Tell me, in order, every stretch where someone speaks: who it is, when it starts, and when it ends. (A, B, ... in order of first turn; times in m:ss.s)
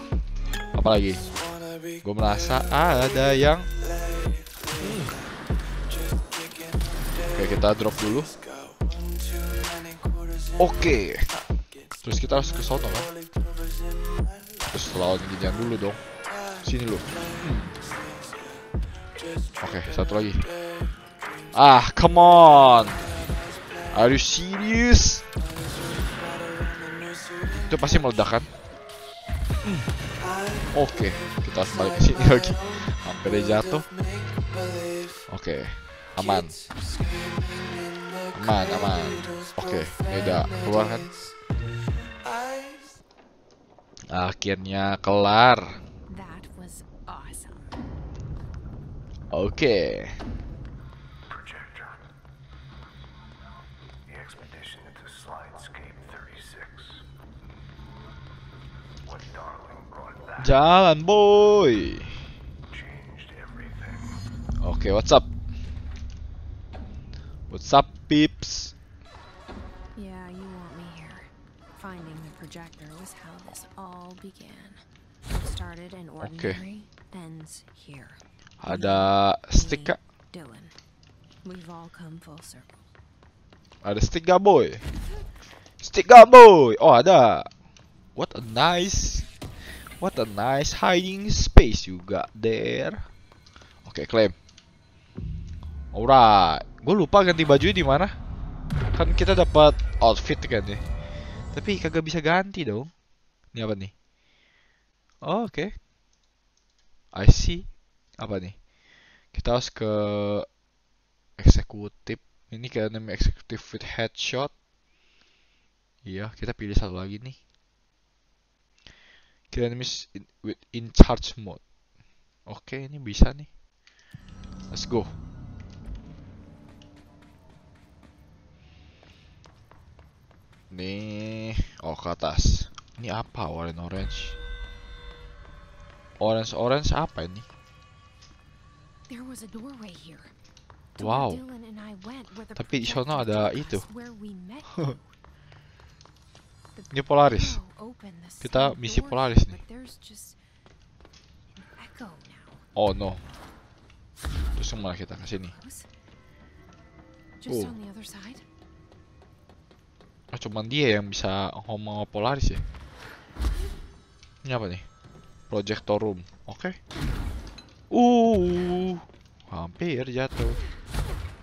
0:00.8-0:01.3 A
0:02.0-0:03.7 A
0:04.8-0:05.2 A
0:07.3-0:08.3 A
0:10.6-0:11.3 A
0:12.0-0:13.1 A
0:14.7-0:16.0 A
0:16.6-0:17.7 A
0:19.6-0:20.4 A
0:21.5-0:23.0 A
0:23.9-0:25.2 A
0:27.5-0:28.5 A
0:29.6-0:29.9 A
0:30.7-0:33.9 A
0:35.3-0:36.6 A
0:38.3-0:41.1 A
0:44.1-0:45.7 A
0:46.1-0:47.7 B
0:49.3-0:50.1 A
0:51.3-0:52.0 C
0:54.1-0:56.9 C
0:59.1-1:00.6 C
1:00.4-1:02.1 A
1:02.7-1:04.2 C
1:04.6-1:05.3 A
1:07.5-1:08.7 A
1:10.0-1:20.8 B
1:16.2-1:16.6 A
1:18.6-1:20.0 A
1:21.4-1:22.9 B
1:23.8-1:24.8 A
1:25.8-1:27.5 A
1:28.2-1:29.3 A
1:30.0-1:33.0 A
1:33.8-1:34.4 A
1:35.9-1:38.1 A
1:39.0-1:40.8 A
1:41.5-1:42.9 A
1:43.5-1:43.9 A
1:45.2-1:45.8 A
1:47.1-1:47.7 A
1:48.2-1:48.6 A
1:49.3-1:50.5 A
1:51.4-1:54.5 A
1:56.0-1:57.4 A
1:59.5-2:01.6 A
2:02.5-2:03.5 A
2:04.7-2:05.1 A
2:10.7-2:14.4 A
2:16.2-2:17.5 A
2:19.1-2:20.3 B
2:21.0-2:25.1 B
2:21.0-2:21.4 A
2:22.6-2:23.9 A
2:26.8-2:30.4 B
2:26.9-2:27.6 A
2:28.4-2:29.6 A
2:31.6-2:32.6 B
2:32.8-2:33.2 A
2:34.6-2:35.5 A
2:35.4-2:35.9 B
2:37.4-2:38.4 B
2:37.5-2:37.7 A
2:40.3-2:42.6 A
2:44.4-2:44.8 A
2:45.5-2:46.8 A
2:47.9-2:50.6 A